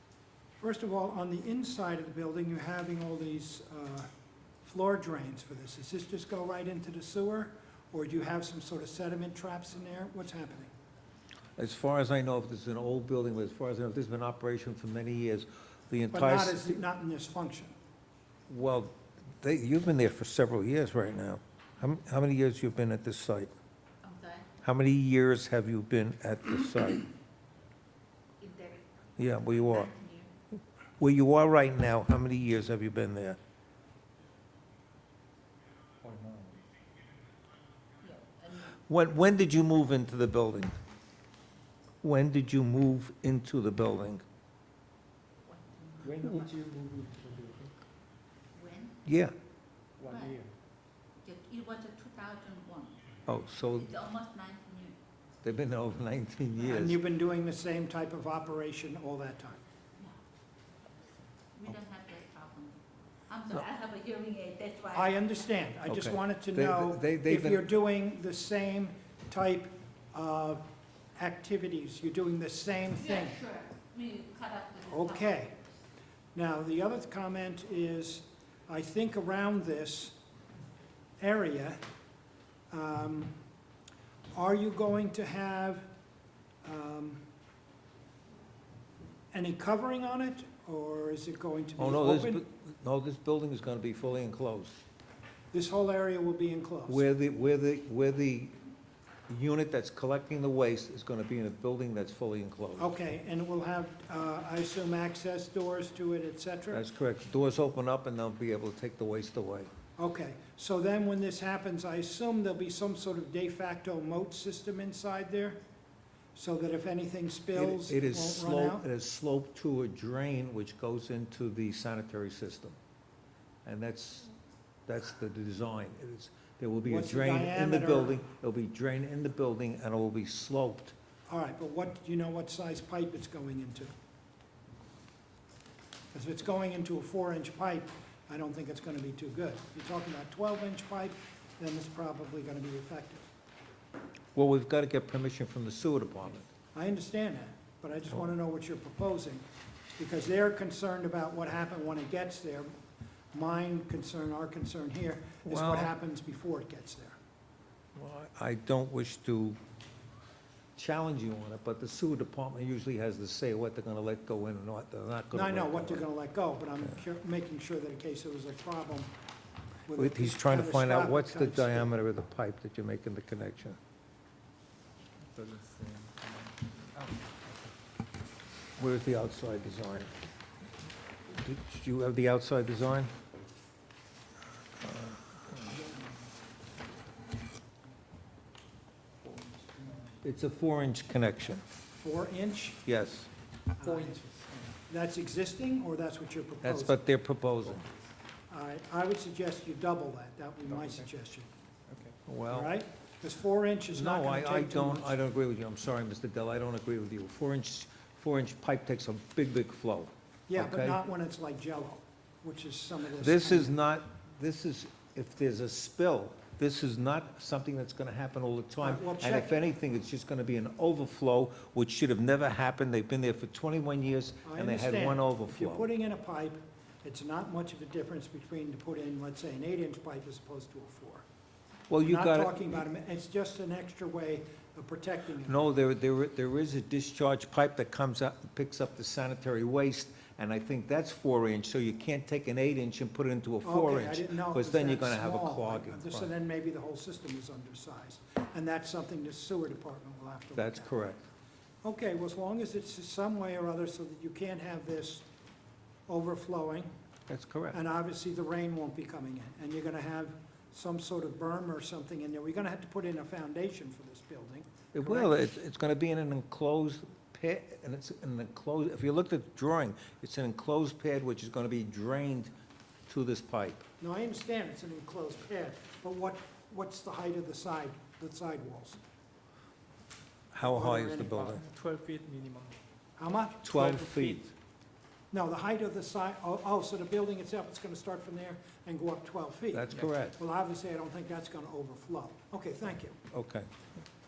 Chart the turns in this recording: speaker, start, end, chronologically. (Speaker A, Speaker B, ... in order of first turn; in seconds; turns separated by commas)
Speaker A: 0.6-4.1, Speaker A: 4.6-10.7, Speaker B: 11.6-16.8, Speaker A: 16.1-17.7, Speaker B: 18.5-23.5, Speaker C: 24.0-24.5, Speaker B: 24.6-27.1, Speaker C: 28.4-30.3, Speaker B: 29.2-29.9, Speaker B: 31.0-33.4, Speaker D: 36.0-36.6, Speaker C: 38.0-38.8, Speaker B: 38.9-40.7, Speaker B: 42.0-44.2, Speaker C: 45.5-46.4, Speaker D: 46.0-47.7, Speaker C: 48.5-49.0, Speaker B: 49.0-49.3, Speaker D: 50.0-50.5, Speaker C: 50.1-50.4, Speaker C: 51.2-53.0, Speaker B: 53.3-53.9, Speaker C: 53.8-55.0, Speaker B: 55.4-57.0, Speaker A: 56.7-59.6, Speaker C: 61.5-65.2, Speaker A: 64.9-70.6, Speaker B: 65.9-67.7, Speaker A: 71.2-73.4, Speaker C: 73.0-75.5, Speaker A: 74.8-75.5, Speaker A: 76.3-80.2, Speaker A: 81.2-81.8, Speaker A: 82.7-83.3, Speaker A: 84.3-85.9, Speaker A: 86.6-87.2, Speaker A: 89.3-92.4, Speaker B: 91.8-94.8, Speaker A: 95.5-97.1, Speaker B: 96.9-98.6, Speaker B: 99.3-102.9, Speaker A: 102.8-106.8, Speaker B: 106.7-109.7, Speaker A: 110.0-115.6, Speaker A: 116.3-118.8, Speaker B: 117.5-122.8, Speaker B: 123.7-124.3, Speaker B: 124.9-130.9, Speaker A: 126.9-128.2, Speaker A: 131.3-133.9, Speaker A: 136.1-143.3, Speaker B: 144.3-146.5, Speaker A: 146.7-149.4, Speaker A: 150.0-152.7, Speaker A: 153.3-157.2, Speaker B: 155.4-155.9, Speaker B: 158.0-159.6, Speaker B: 160.8-166.1, Speaker A: 165.3-169.1, Speaker A: 169.9-171.9, Speaker B: 170.0-173.8, Speaker D: 175.3-177.5, Speaker B: 178.8-180.1, Speaker B: 181.3-183.1, Speaker B: 184.8-185.6, Speaker D: 189.2-190.2, Speaker B: 190.2-191.6, Speaker A: 192.0-192.8, Speaker B: 192.9-193.3, Speaker D: 193.8-194.7, Speaker A: 193.8-194.2, Speaker A: 194.9-197.0, Speaker B: 196.6-197.8, Speaker A: 198.5-201.5, Speaker D: 200.7-201.1, Speaker D: 201.9-202.2, Speaker B: 202.3-202.8, Speaker A: 202.5-205.2, Speaker B: 203.9-211.0, Speaker A: 210.5-213.8, Speaker B: 213.2-225.9, Speaker A: 218.8-219.5, Speaker A: 224.4-231.3, Speaker B: 231.9-232.8, Speaker A: 232.0-235.7, Speaker B: 235.5-246.3, Speaker A: 243.6-250.9, Speaker B: 250.6-251.2, Speaker A: 251.8-255.3, Speaker A: 256.1-256.9, Speaker B: 257.3-257.8, Speaker A: 257.7-265.4, Speaker B: 264.9-272.5, Speaker B: 273.1-273.9, Speaker A: 274.0-279.0, Speaker B: 280.5-281.7, Speaker D: 280.6-282.8, Speaker A: 283.2-284.0, Speaker B: 283.6-284.4, Speaker D: 283.7-284.5, Speaker A: 285.3-293.2, Speaker B: 289.7-290.4, Speaker B: 293.3-293.8